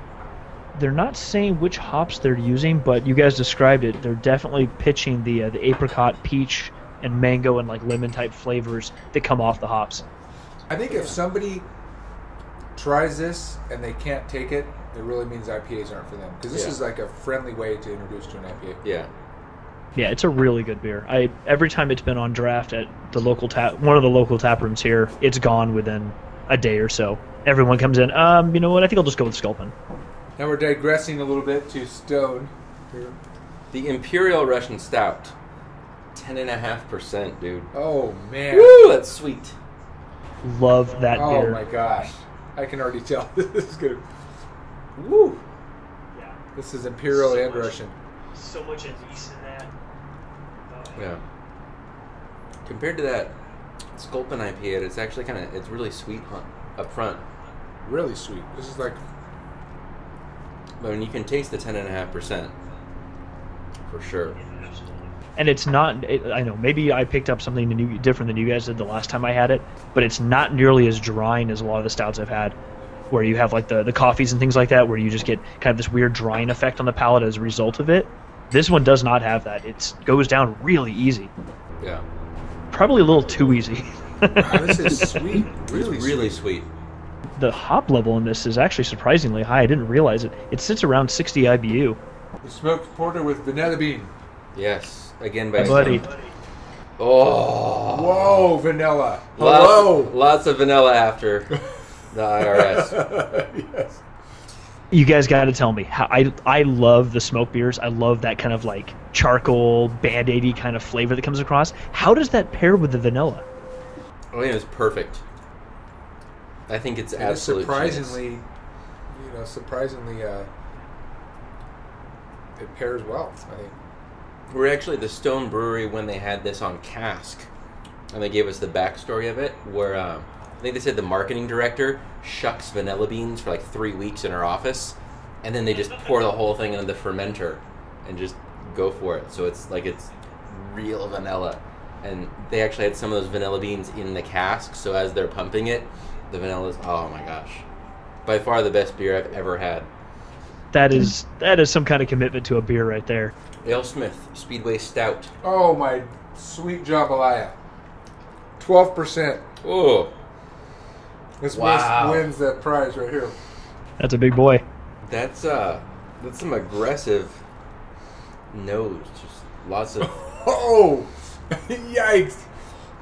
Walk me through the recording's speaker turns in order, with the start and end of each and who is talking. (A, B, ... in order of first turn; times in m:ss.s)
0:00.7-0:10.0 A
0:10.7-0:11.6 B
0:12.8-0:18.8 B
0:16.5-0:16.8 C
0:18.8-0:19.1 C
0:20.0-0:29.7 A
0:30.4-0:33.2 B
0:33.7-0:35.4 C
0:36.1-0:37.7 C
0:37.7-0:38.9 B
0:38.5-0:39.6 C
0:40.4-0:41.6 A
0:41.1-0:44.0 B
0:45.0-0:45.4 C
0:46.5-0:47.9 B
0:47.2-0:47.7 A
0:48.4-0:49.7 A
0:50.9-0:51.2 C
0:52.6-0:53.4 C
0:53.9-0:57.2 C
0:57.8-0:59.0 B
1:00.8-1:02.5 C
1:03.9-1:04.4 C
1:05.4-1:12.6 A
1:13.1-1:21.3 A
1:21.8-1:22.0 C
1:22.7-1:25.1 A
1:24.4-1:26.4 B
1:25.7-1:26.7 C
1:27.4-1:32.0 A
1:32.4-1:34.1 B
1:34.5-1:36.0 C
1:35.6-1:36.1 A
1:37.0-1:38.6 C
1:37.9-1:40.1 B
1:39.4-1:41.5 C
1:42.1-1:43.0 C
1:42.4-1:44.0 B
1:44.9-1:53.4 A
1:54.3-1:55.2 C
1:56.7-1:58.2 C
1:57.2-1:58.4 B
1:59.1-2:00.5 B
2:02.6-2:03.7 B
2:04.5-2:07.5 C
2:08.1-2:27.6 C
2:28.2-2:29.9 C
2:30.7-2:33.3 A
2:33.6-2:35.3 C
2:35.4-2:37.5 B
2:38.6-2:39.4 B
2:39.6-2:40.1 C
2:41.4-2:43.4 B
2:41.5-2:42.3 C
2:44.0-2:44.6 A
2:45.0-2:47.4 C
2:48.5-2:50.1 C
2:50.0-2:52.5 B